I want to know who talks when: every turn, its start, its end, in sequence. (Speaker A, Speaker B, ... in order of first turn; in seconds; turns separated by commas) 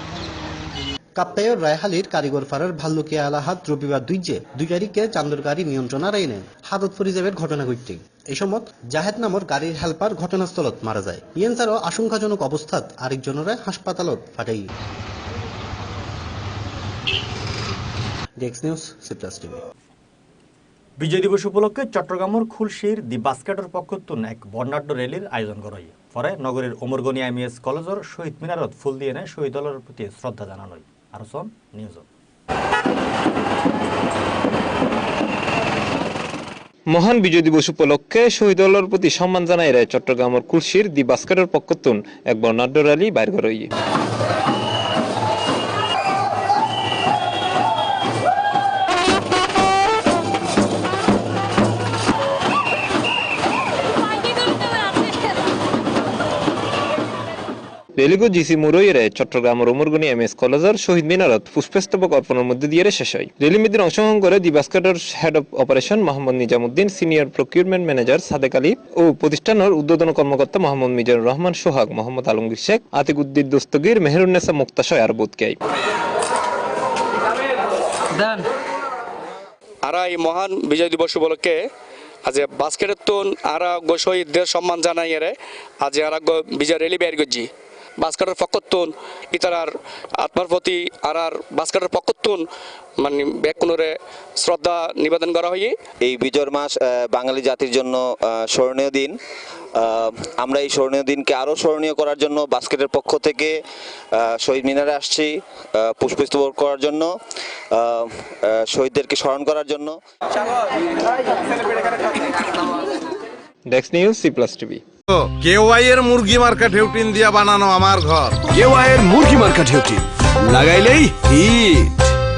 Speaker A: 1.1-14.7, Speaker A: 18.4-19.6, Speaker B: 21.0-32.0, Speaker C: 36.9-43.7, Speaker C: 58.0-75.6, Speaker D: 79.8-81.7, Speaker D: 82.2-92.4, Speaker D: 93.0-95.8, Speaker E: 96.0-99.1, Speaker E: 99.8-103.5, Speaker E: 104.1-107.1, Speaker E: 107.7-110.0, Speaker C: 113.7-114.8, Speaker F: 115.4-118.3, Speaker G: 118.5-120.0, Speaker G: 120.5-121.7